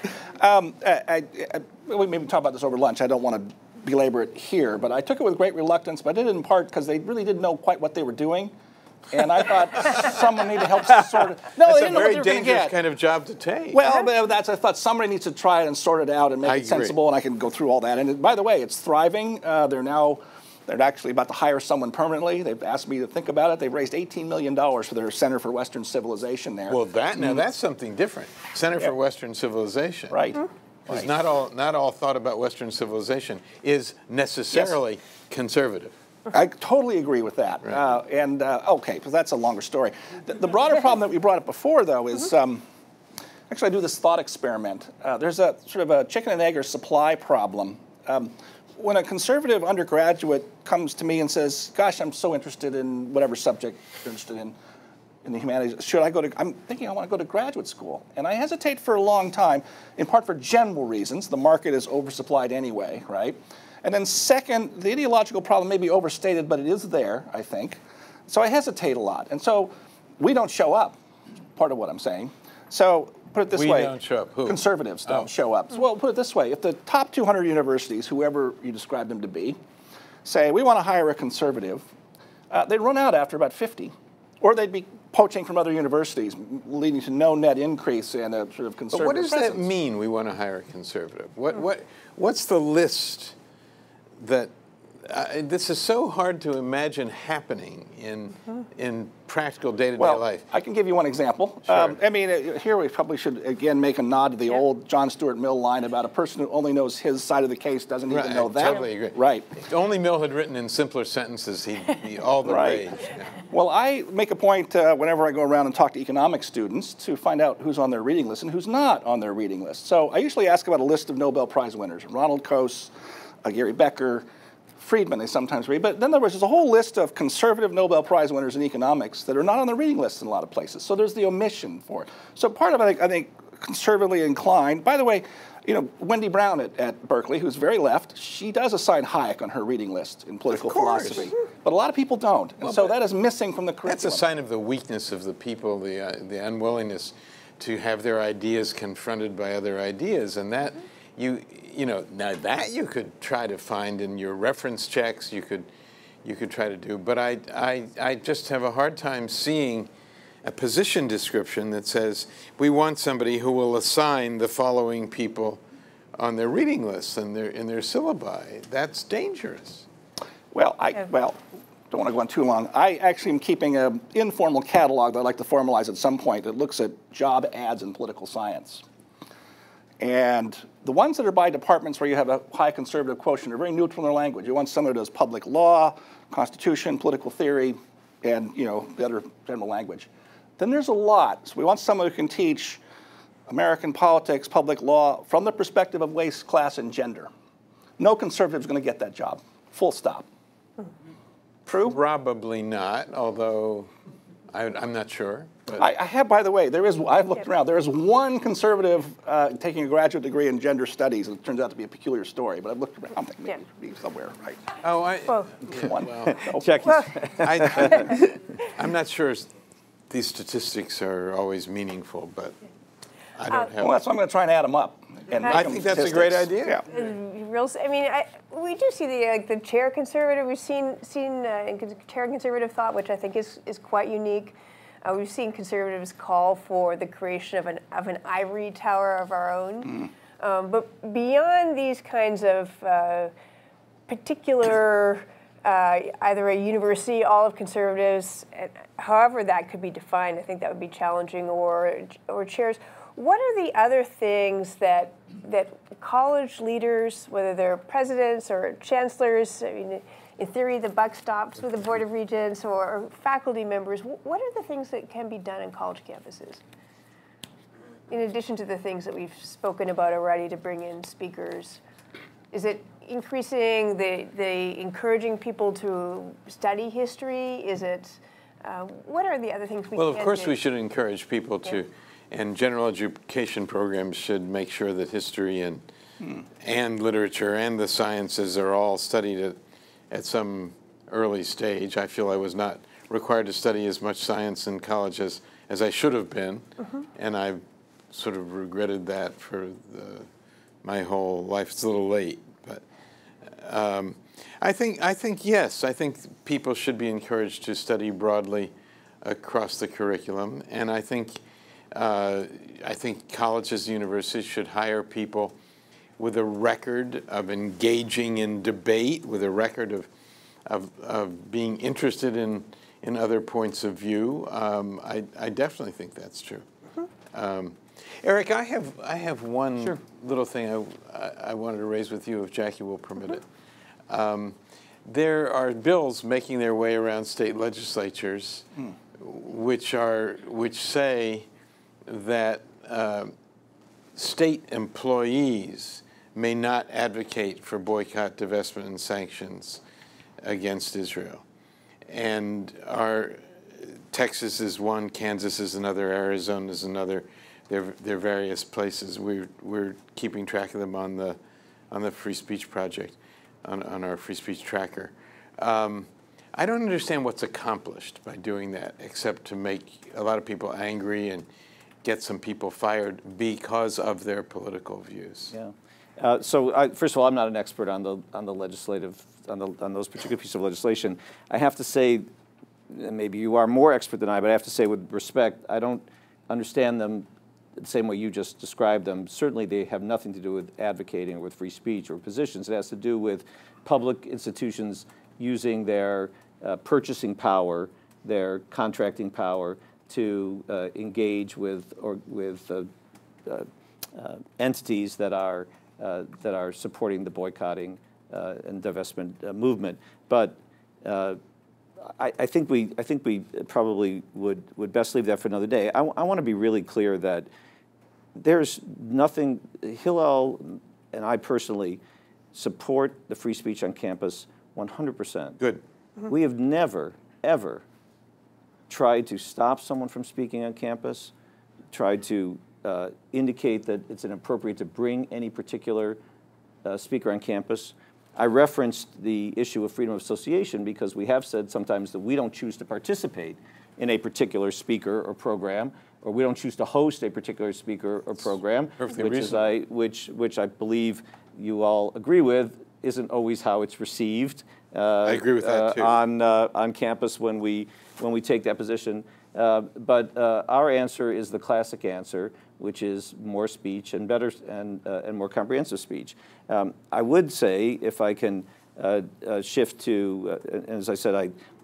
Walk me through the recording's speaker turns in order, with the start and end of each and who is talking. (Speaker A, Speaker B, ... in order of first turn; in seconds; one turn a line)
Speaker A: 0.3-8.5
Speaker A: 9.1-12.8
Speaker B: 11.6-13.8
Speaker A: 13.7-27.4
Speaker B: 16.4-17.0
Speaker B: 26.7-30.3
Speaker A: 30.1-31.1
Speaker B: 30.9-36.0
Speaker A: 36.3-42.6
Speaker A: 43.5-54.5
Speaker A: 55.2-71.0
Speaker A: 71.6-79.6
Speaker B: 73.5-75.3
Speaker A: 80.2-81.9
Speaker A: 82.5-89.6
Speaker B: 88.9-93.3
Speaker B: 94.2-94.5
Speaker B: 95.0-100.5
Speaker A: 100.0-109.5
Speaker B: 101.7-102.0
Speaker B: 108.1-113.4
Speaker A: 112.4-112.8
Speaker A: 113.5-122.9
Speaker A: 123.4-124.2
Speaker A: 124.8-144.2
Speaker B: 140.5-141.3
Speaker B: 142.6-142.9
Speaker B: 143.9-155.7
Speaker B: 156.2-159.9
Speaker B: 160.4-165.6
Speaker B: 166.2-169.9
Speaker A: 170.5-171.4
Speaker A: 171.9-178.8
Speaker A: 180.0-192.8
Speaker A: 193.5-197.3
Speaker A: 198.0-200.3
Speaker A: 201.7-202.0
Speaker B: 201.8-203.9
Speaker B: 204.5-205.9
Speaker A: 205.8-214.6
Speaker B: 214.8-216.4
Speaker A: 215.7-216.7
Speaker C: 216.3-218.1
Speaker B: 217.4-219.5
Speaker B: 220.1-222.6
Speaker B: 223.4-224.0
Speaker A: 223.8-226.9
Speaker B: 225.4-226.8
Speaker D: 226.9-243.3
Speaker D: 244.1-266.6
Speaker D: 268.1-271.8
Speaker D: 272.5-280.6
Speaker B: 279.9-285.9
Speaker B: 286.6-289.6
Speaker B: 290.1-300.3
Speaker B: 300.8-302.8
Speaker B: 303.5-311.4
Speaker B: 311.9-315.5
Speaker B: 316.2-320.1
Speaker B: 320.7-326.7
Speaker B: 327.3-333.4
Speaker B: 334.1-341.5
Speaker B: 342.1-343.3
Speaker B: 344.2-349.8
Speaker B: 350.4-351.4
Speaker B: 352.1-361.4
Speaker B: 361.9-371.5
Speaker B: 372.0-375.5
Speaker C: 375.5-382.3
Speaker C: 382.9-387.3
Speaker C: 387.8-402.9
Speaker C: 403.5-411.4
Speaker C: 412.2-417.5
Speaker C: 418.4-422.0
Speaker C: 422.5-425.6
Speaker C: 426.3-427.8
Speaker C: 428.9-431.3
Speaker C: 431.9-436.2
Speaker C: 436.9-471.5
Speaker B: 449.0-449.6
Speaker B: 455.2-456.2